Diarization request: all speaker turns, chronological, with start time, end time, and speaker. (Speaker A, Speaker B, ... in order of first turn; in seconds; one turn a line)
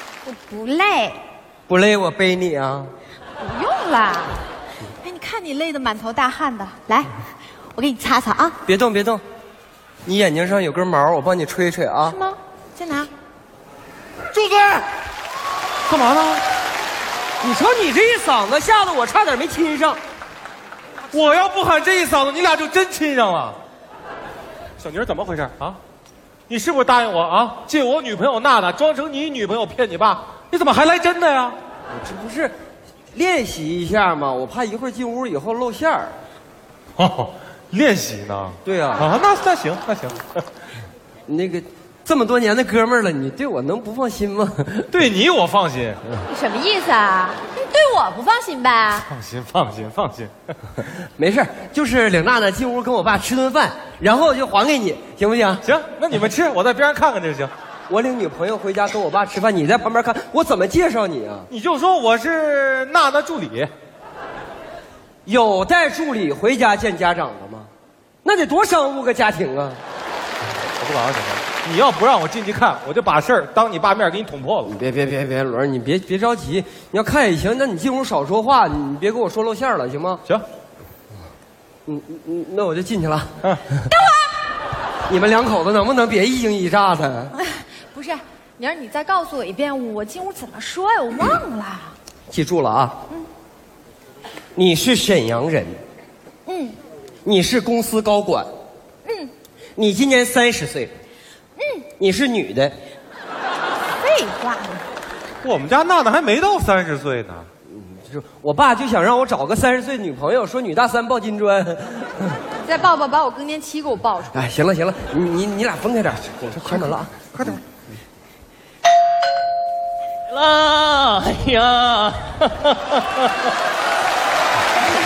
Speaker A: 0.2-1.2
Speaker B: 1.7-2.9
Speaker A: 3.4-4.4
Speaker A: 5.0-7.2
Speaker A: 7.8-8.6
Speaker B: 8.7-9.2
Speaker B: 10.1-12.2
Speaker A: 12.1-13.1
Speaker C: 14.3-14.9
Speaker C: 15.9-16.4
Speaker B: 17.4-20.0
Speaker C: 21.1-23.6
Speaker C: 24.8-25.8
Speaker C: 26.5-31.6
Speaker B: 31.9-32.5
Speaker B: 33.1-36.2
Speaker C: 37.0-40.4
Speaker B: 38.6-39.1
Speaker B: 41.3-44.9
Speaker C: 44.9-46.0
Speaker A: 46.3-49.1
Speaker C: 48.9-50.8
Speaker B: 51.2-55.6
Speaker C: 55.6-57.5
Speaker B: 57.9-61.5
Speaker C: 61.5-63.7
Speaker B: 65.2-67.7
Speaker B: 68.2-69.8
Speaker C: 70.8-74.7
Speaker B: 74.7-80.2
Speaker B: 81.9-83.3
Speaker A: 83.9-84.5
Speaker B: 85.1-87.3
Speaker A: 87.4-92.0
Speaker B: 92.3-93.0
Speaker B: 94.5-95.8
Speaker A: 96.5-96.8
Speaker B: 97.2-98.5
Speaker A: 99.0-99.3
Speaker B: 99.8-100.9
Speaker A: 101.6-101.9
Speaker B: 102.0-102.8
Speaker A: 104.0-104.8
Speaker C: 105.4-107.5
Speaker B: 107.7-112.4
Speaker A: 112.6-114.5
Speaker B: 114.3-117.1
Speaker C: 116.6-117.6
Speaker D: 120.3-123.5